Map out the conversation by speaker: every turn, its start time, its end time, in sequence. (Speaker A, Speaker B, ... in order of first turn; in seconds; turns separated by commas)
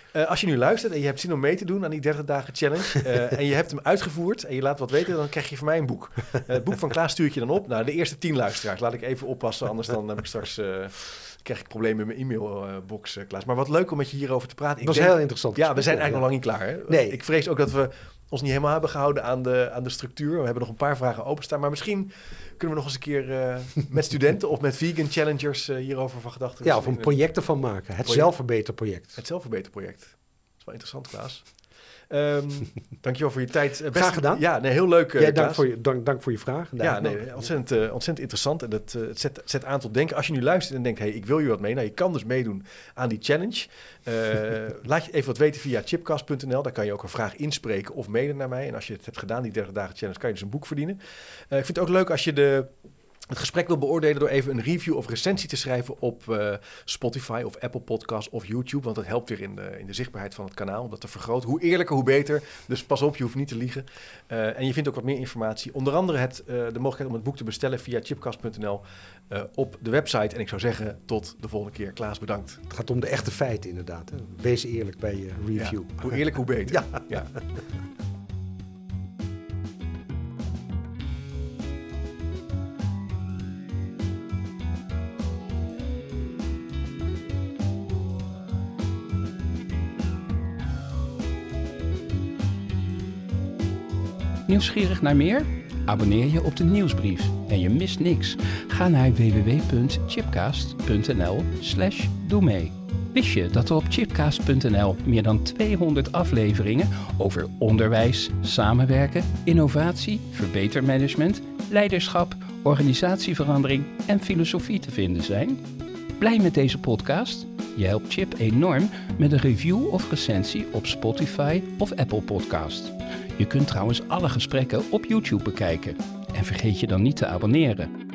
Speaker A: 0.1-27.2, Speaker B: 14.8-16.2, Speaker B: 16.9-17.2, Speaker B: 26.6-29.2, Speaker A: 28.0-28.3, Speaker A: 29.1-35.6, Speaker B: 33.9-34.4, Speaker B: 35.1-37.5, Speaker A: 36.8-52.7, Speaker A: 53.3-72.6, Speaker B: 72.7-77.0, Speaker A: 75.5-77.3, Speaker C: 94.5-115.6, Speaker C: 116.2-127.9